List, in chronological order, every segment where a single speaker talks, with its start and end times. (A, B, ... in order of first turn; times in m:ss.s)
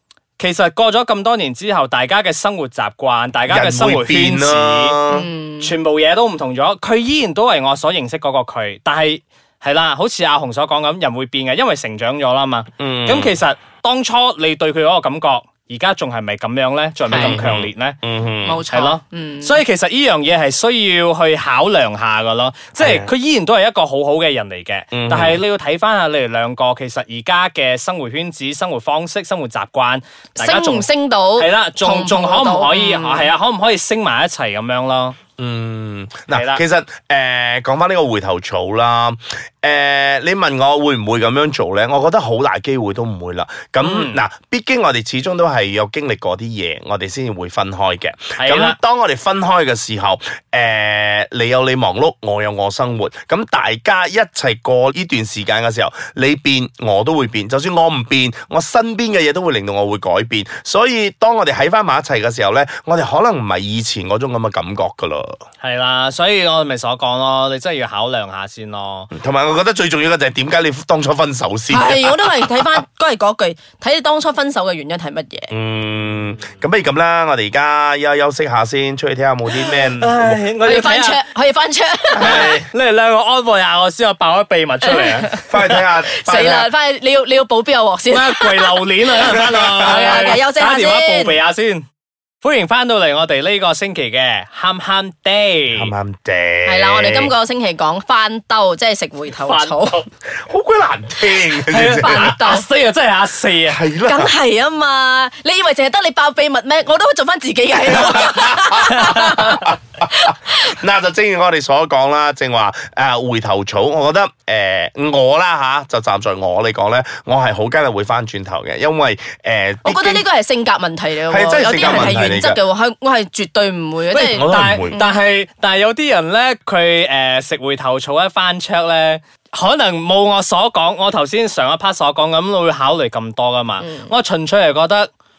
0:00.4-0:05.0 A
0:03.5-0:05.3 B
0:05.1-0:05.7 C
0:05.6-0:18.0 A
0:12.8-0:13.4 B
0:17.1-0:17.4 C
0:17.1-0:18.6 B
0:18.4-0:19.6 C
0:18.7-0:35.2 A
0:22.8-0:23.1 B
0:24.9-0:25.4 B
0:30.4-0:33.3 C
0:35.4-1:05.4 B
0:36.3-0:36.6 A
0:43.8-0:44.2 A
0:48.4-0:48.8 A
1:05.6-1:09.1 A
1:09.1-1:12.6 B
1:11.7-1:15.5 C
1:15.5-1:20.4 B
1:19.7-1:21.2 A
1:20.6-1:22.6 C
1:22.2-1:22.7 B
1:22.2-1:25.3 A
1:24.8-1:31.4 C
1:25.5-1:26.7 B
1:28.1-1:31.8 A
1:29.3-1:30.0 B
1:32.4-1:35.9 A
1:35.7-1:37.3 B
1:36.7-1:40.0 C
1:39.4-1:40.0 A
1:40.4-1:42.4 B
1:41.7-1:43.8 A
1:41.8-1:42.6 C
1:43.7-1:44.3 B
1:44.0-1:50.8 C
1:47.9-1:49.8 B
1:49.0-1:49.4 A
1:50.5-2:00.2 B
1:59.8-2:05.2 C
2:01.3-2:02.6 B
2:01.8-2:02.2 A
2:04.1-2:15.1 A
2:04.3-2:05.0 B
2:13.8-2:14.1 C